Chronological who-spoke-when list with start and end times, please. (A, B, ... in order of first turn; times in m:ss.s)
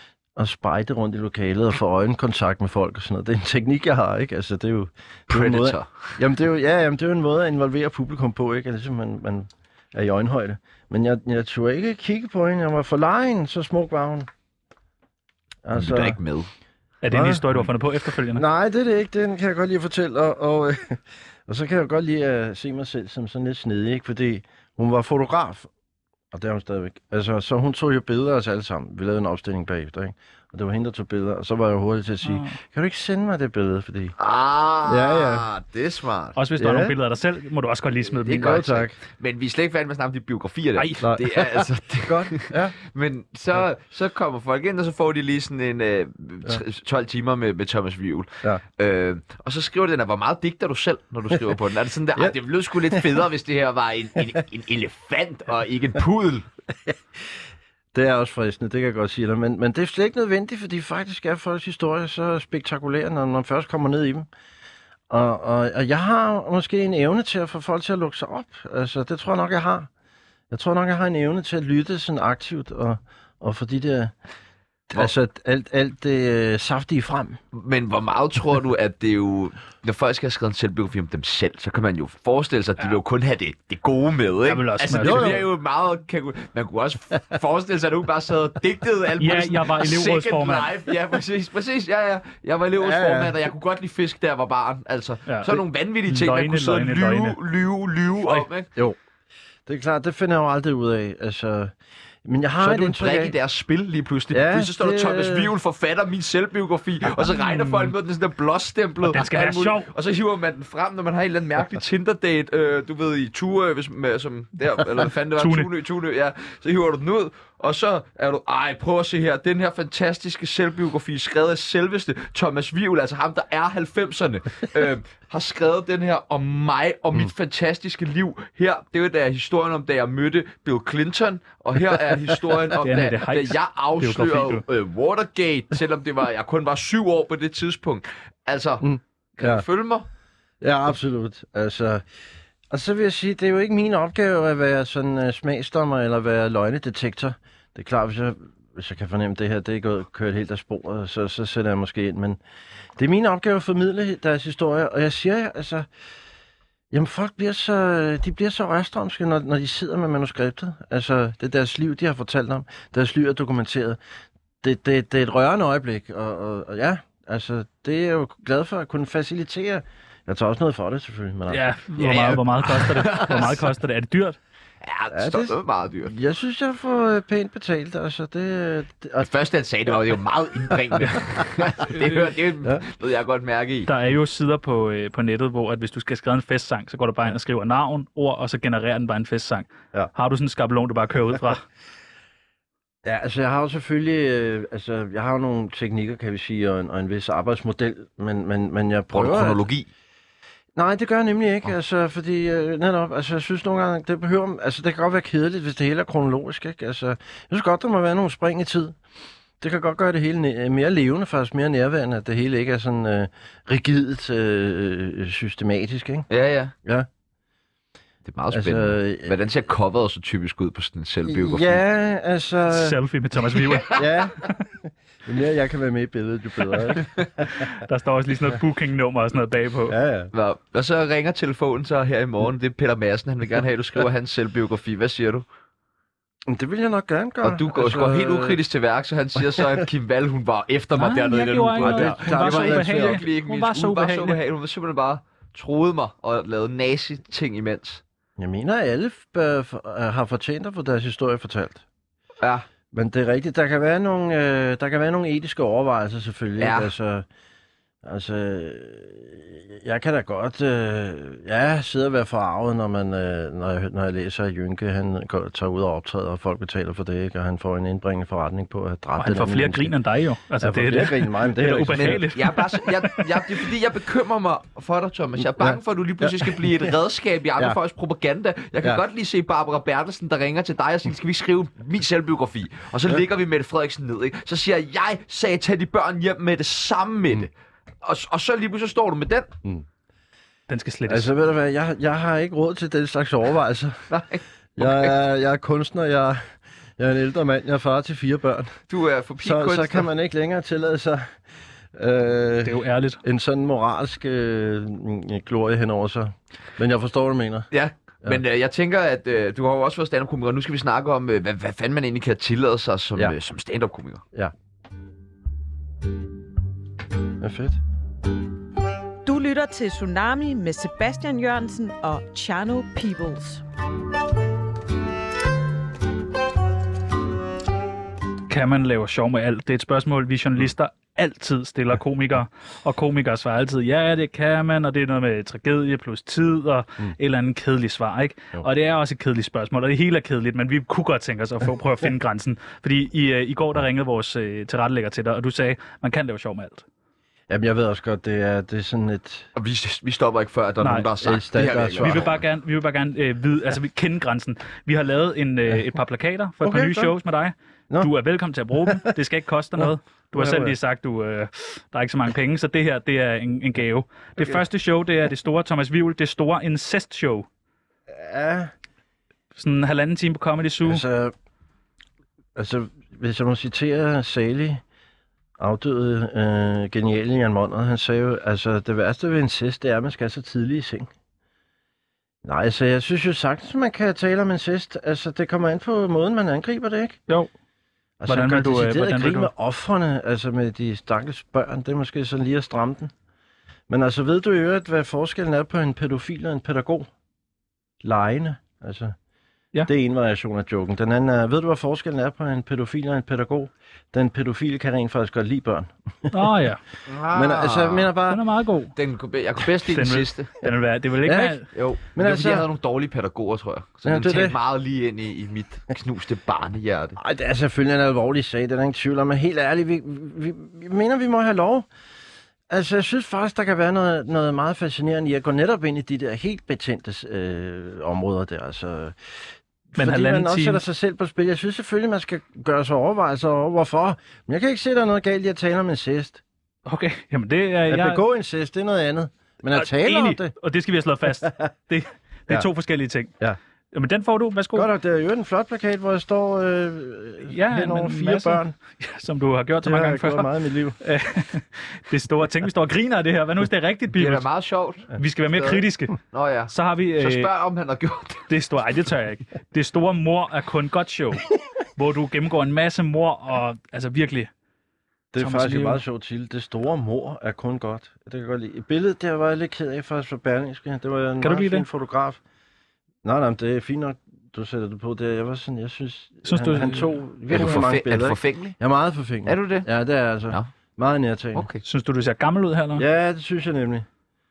0:00.4-0:14.3 A
0:05.3-0:06.1 B
0:15.6-0:16.2 A
0:15.7-0:16.5 B
0:17.0-0:18.4 C
0:17.1-0:17.4 A
0:18.3-0:25.7 A
0:26.3-0:34.1 A
0:32.2-0:32.6 C
0:34.2-0:36.4 B
0:34.8-0:35.5 A
0:36.4-0:38.6 C
0:36.6-0:36.9 A
0:38.2-0:56.5 B
0:38.3-0:39.0 A
0:40.8-0:41.1 C
0:41.0-0:42.8 A
0:57.9-1:04.3 A
1:05.1-1:09.9 A
1:10.5-1:14.1 A
1:14.9-1:17.4 A
1:17.5-1:38.7 B
1:24.4-1:25.4 C
1:25.0-1:25.4 A
1:29.2-1:30.7 C
1:32.8-1:33.4 A
1:35.3-1:37.4 C
1:39.6-1:41.7 A
1:42.2-1:43.3 A
1:42.6-2:20.0 B
1:44.3-1:45.5 A
1:47.2-1:47.9 C
1:49.0-1:49.9 C
1:55.4-1:55.7 C
2:12.8-2:14.6 C
2:18.8-2:19.6 A
2:20.6-2:22.0 A
2:22.7-2:32.4 A
2:33.0-2:35.9 A
2:36.9-2:44.0 A
2:44.6-2:51.6 A
2:51.5-2:54.4 C
2:52.0-2:53.6 B
2:54.8-2:56.1 B
2:55.1-2:59.3 A
2:59.2-3:03.9 B
3:00.9-3:01.2 A
3:01.9-3:02.2 C
3:03.9-3:11.6 C
3:13.0-3:19.6 A
3:19.1-3:19.9 B
3:20.8-3:29.0 A
3:29.6-3:36.3 A
3:36.3-3:36.7 B
3:38.2-3:41.8 B
3:38.5-3:39.3 A
3:41.2-3:43.0 A
3:42.7-3:44.5 C
3:43.6-3:44.0 B
3:43.9-3:47.7 A
3:47.5-3:50.0 C
3:49.9-3:50.3 A
3:50.3-3:55.4 B
3:56.5-3:58.6 A
3:57.4-4:08.0 B
3:59.4-3:59.9 A
4:01.0-4:04.4 C
4:01.8-4:03.2 A
4:08.4-4:11.8 A
4:12.4-4:12.7 B
4:12.9-4:17.2 A
4:16.6-4:16.9 B
4:18.0-4:29.9 A
4:29.2-4:33.6 C
4:30.6-4:32.3 A
4:31.9-4:47.5 B
4:35.6-4:37.0 A
4:48.0-4:49.5 B
4:50.7-4:51.3 C
4:51.1-4:54.1 A
4:54.1-4:55.1 B
4:54.8-4:58.8 A
4:58.9-5:00.1 B
4:59.4-5:01.4 A
5:01.9-5:07.7 A
5:02.6-5:03.2 C
5:07.7-5:14.2 B
5:17.4-5:17.8 A
5:19.2-5:23.6 D
5:28.5-5:46.8 C
5:47.5-5:49.5 A
5:49.6-5:52.3 B
5:50.8-5:51.1 C
5:51.2-5:52.3 A
5:52.0-6:07.4 C
5:56.6-5:57.1 A
5:59.8-6:00.8 A
6:08.1-6:08.7 A
6:09.5-6:11.0 C
6:10.8-6:11.3 A
6:12.6-6:14.8 A
6:15.6-6:21.1 A
6:22.4-6:27.2 A
6:28.2-6:33.1 A
6:28.3-6:29.5 C
6:33.9-6:37.1 A
6:38.0-6:39.1 A
6:39.8-6:46.5 A
6:46.3-6:46.8 C
6:47.1-6:48.1 B
6:47.3-6:48.4 A
6:48.3-6:48.9 C
6:49.0-6:50.5 B
6:49.8-6:51.7 C
6:51.2-6:51.6 A
6:51.7-6:57.2 B
6:52.1-6:52.7 A
6:54.0-6:54.6 A
6:57.2-7:01.9 A
7:02.7-7:09.2 A
7:09.9-7:16.4 A
7:10.0-7:10.8 C
7:16.9-7:18.2 C
7:17.9-7:20.5 A
7:19.7-7:23.3 C
7:21.4-7:21.7 A
7:23.9-7:24.9 C
7:24.7-7:28.8 A
7:27.4-7:34.4 C
7:29.8-7:31.0 A
7:34.1-7:38.5 B
7:35.2-7:36.2 C
7:36.7-7:37.5 C
7:38.5-7:44.5 C
7:45.3-7:52.4 A
7:45.4-7:46.0 C
7:51.4-7:51.9 C
7:53.2-8:01.6 A
7:56.4-7:57.2 C
7:57.5-7:58.7 B
7:59.4-7:59.9 B
8:01.5-8:01.8 B
8:01.8-8:03.0 C
8:03.0-8:04.0 A